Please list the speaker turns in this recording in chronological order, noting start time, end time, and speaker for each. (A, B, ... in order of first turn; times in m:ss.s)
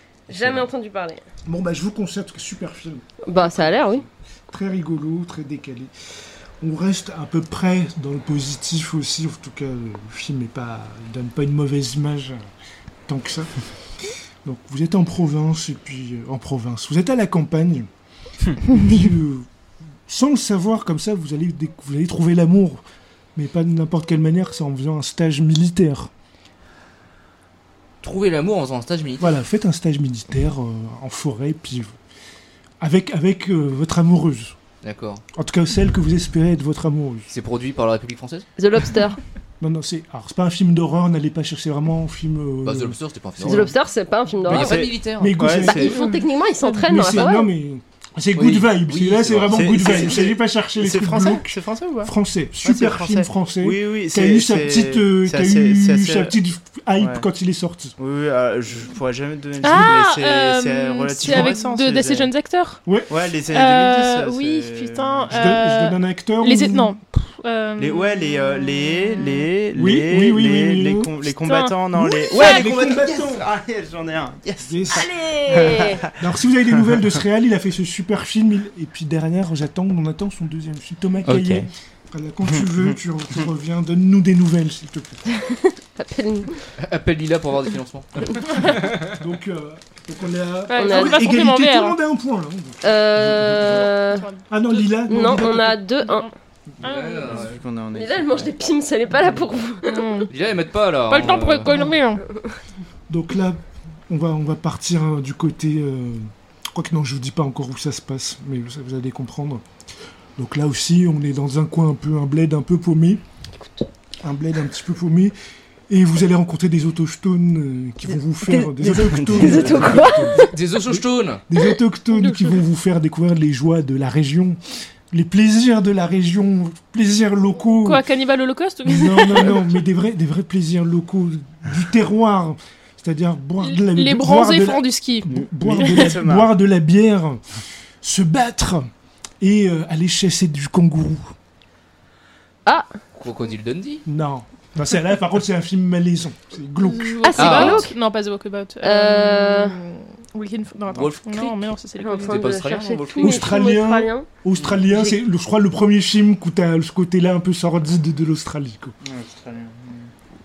0:00.3-0:01.2 A
0:00.3-0:00.6 B
0:01.4-0:05.9 C
0:03.2-0:04.0 A
0:06.6-0:12.4 C
0:13.1-0:13.5 C
0:14.4-0:17.9 C
0:18.7-0:19.5 C
0:20.1-0:22.8 C
0:23.4-0:26.1 C
0:28.0-0:29.3 D
0:29.2-0:31.9 C
0:32.8-0:34.6 C
0:34.8-0:35.2 D
0:35.3-0:37.3 C
0:37.3-0:38.9 D
0:38.6-0:39.2 A
0:39.6-0:43.7 C
0:42.6-0:43.7 D
0:43.4-0:44.8 A
0:44.5-0:45.7 D
0:44.5-0:46.0 B
0:44.5-0:46.3 C
0:45.6-0:47.5 A
0:46.8-0:57.9 C
0:48.3-0:50.1 D
0:49.4-0:56.4 B
0:57.0-0:57.3 B
0:58.0-1:02.3 B
0:59.6-1:03.0 E
1:01.3-1:01.6 C
1:02.8-1:03.1 C
1:02.9-1:05.6 B
1:03.5-1:08.1 E
1:05.3-1:06.9 C
1:07.8-1:16.2 B
1:09.7-1:11.1 C
1:11.4-1:11.8 E
1:11.9-1:13.4 C
1:12.3-1:12.7 E
1:14.6-1:15.1 C
1:14.9-1:16.0 A
1:15.7-1:25.2 C
1:21.2-1:21.7 B
1:22.5-1:22.9 B
1:25.4-1:26.6 A
1:26.8-1:29.0 D
1:29.0-1:33.9 C
1:30.7-1:32.0 E
1:30.7-1:31.4 A
1:32.8-1:34.2 A
1:33.7-1:34.8 E
1:34.5-1:35.8 C
1:35.1-1:36.3 A
1:36.8-1:37.6 E
1:36.8-1:38.5 B
1:36.8-1:37.6 D
1:37.9-1:40.2 A
1:39.8-1:40.3 E
1:40.3-1:41.7 D
1:41.1-1:42.2 E
1:41.3-1:42.0 C
1:42.2-1:42.5 A
1:43.1-1:49.6 C
1:50.4-1:53.2 C
1:53.6-1:53.8 A
1:54.2-1:55.3 C
1:55.9-2:04.6 C
1:58.4-2:00.4 A
1:58.8-2:00.2 B
2:00.3-2:01.4 D
2:02.1-2:02.6 E
2:05.1-2:08.0 C
2:07.8-2:09.7 E
2:08.8-2:17.4 C
2:13.6-2:15.3 E
2:15.3-2:16.5 B
2:15.8-2:16.2 E
2:18.0-2:18.9 C
2:19.4-2:21.3 C
2:23.2-2:24.0 D
2:24.0-2:27.5 C
2:26.8-2:33.4 E
2:27.2-2:28.0 A
2:27.4-2:27.9 D
2:28.8-2:29.7 A
2:30.9-2:33.0 D
2:32.0-2:34.3 A
2:32.9-2:33.6 B
2:33.2-2:38.9 C
2:34.5-2:34.8 B
2:34.9-2:35.2 A
2:39.0-2:40.1 B